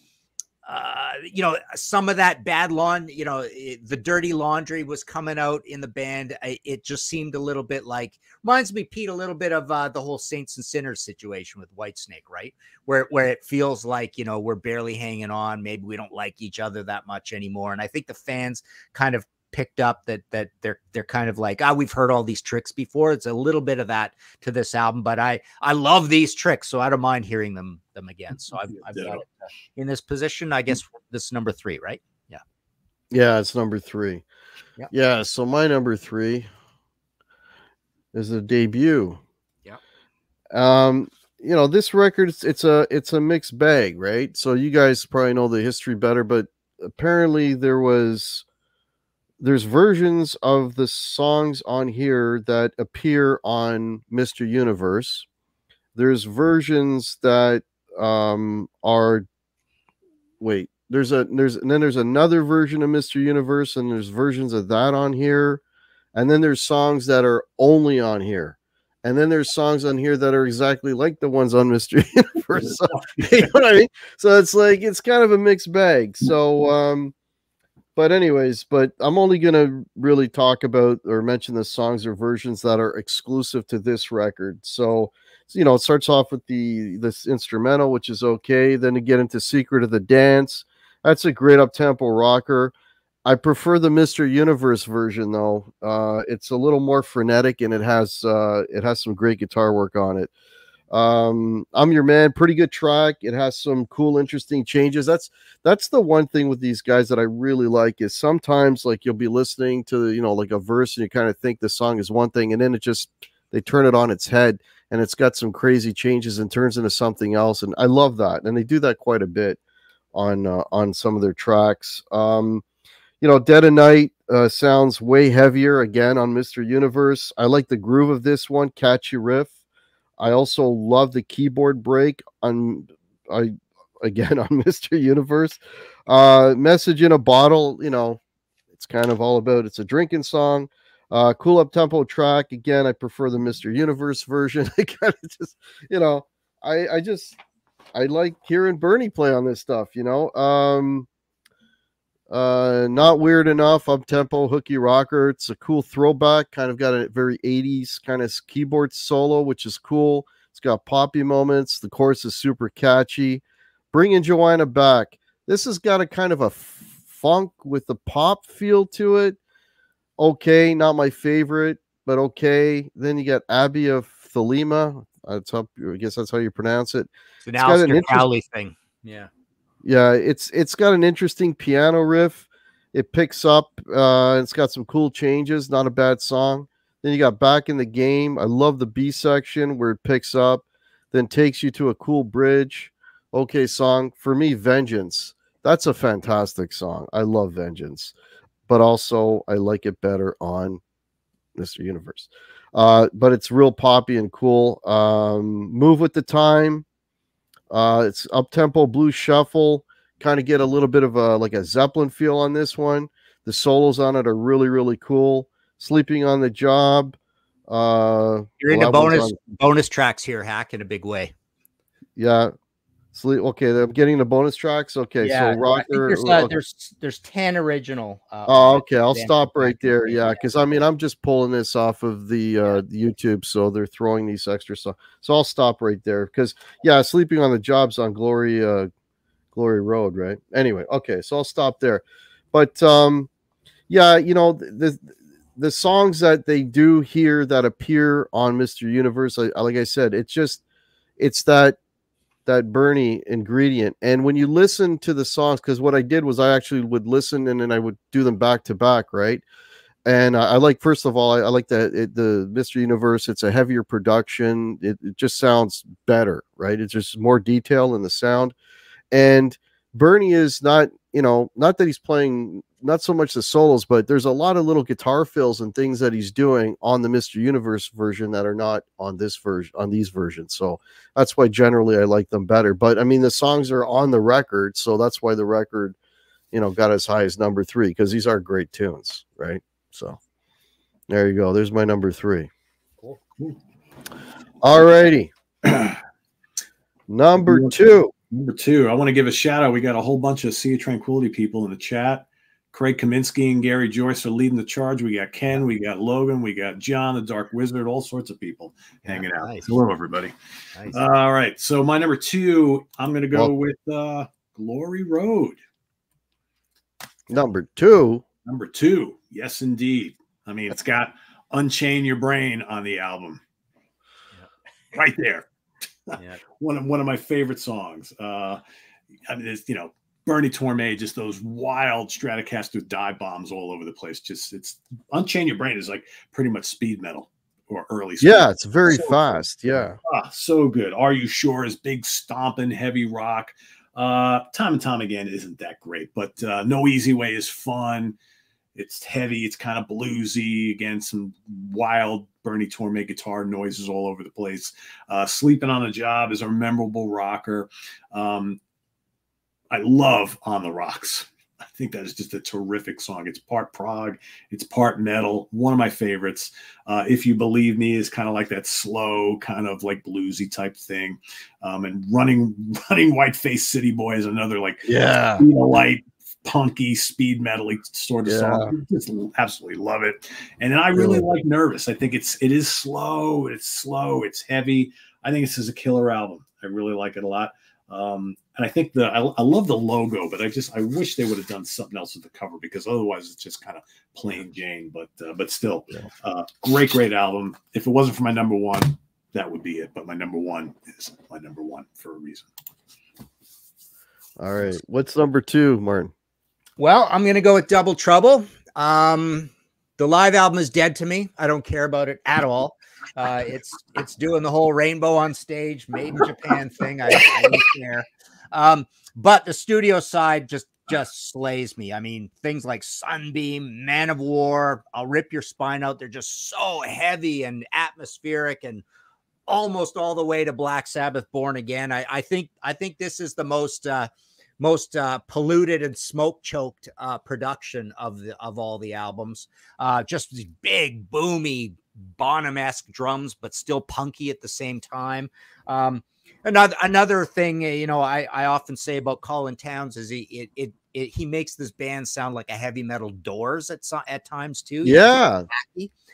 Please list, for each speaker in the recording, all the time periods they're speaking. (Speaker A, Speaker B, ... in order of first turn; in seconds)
Speaker A: 0.6-32.4, 177.4-179.3, 218.6-221.3, 225.2-230.4, 309.0-309.7, 406.8-428.8, 429.5-455.9
Speaker B: 28.8-29.2, 72.6-73.5, 295.6-296.0, 297.4-310.3, 310.9-315.6, 318.4-323.4, 324.9-325.4, 326.1-328.6, 329.3-339.4, 340.0-348.1, 348.7-358.6, 359.7-402.5
Speaker C: 33.1-34.2, 34.9-36.5, 38.1-39.2, 40.5-48.4, 49.4-55.3, 55.9-59.2, 60.4-65.6, 66.1-77.1, 78.0-92.7, 93.2-100.3, 100.9-119.6, 120.1-122.6, 123.2-129.5, 130.2-138.2, 138.7-147.4, 147.9-151.1, 152.3-169.4, 170.2-177.1, 177.6-178.2, 179.8-198.1, 198.7-200.8, 201.6-206.8, 207.7-217.2, 217.7-219.4, 222.2-222.5, 223.1-226.5, 228.5-238.9, 239.5-243.3, 243.9-250.6, 251.2-251.8, 252.4-259.4, 260.1-268.5, 269.1-285.9, 286.5-290.2, 291.1-292.5, 294.6-295.3, 297.1-298.1, 317.3-318.2, 338.2-340.0, 374.8-375.4, 378.2-378.7, 380.9-381.2, 404.4-406.1, 454.8-455.4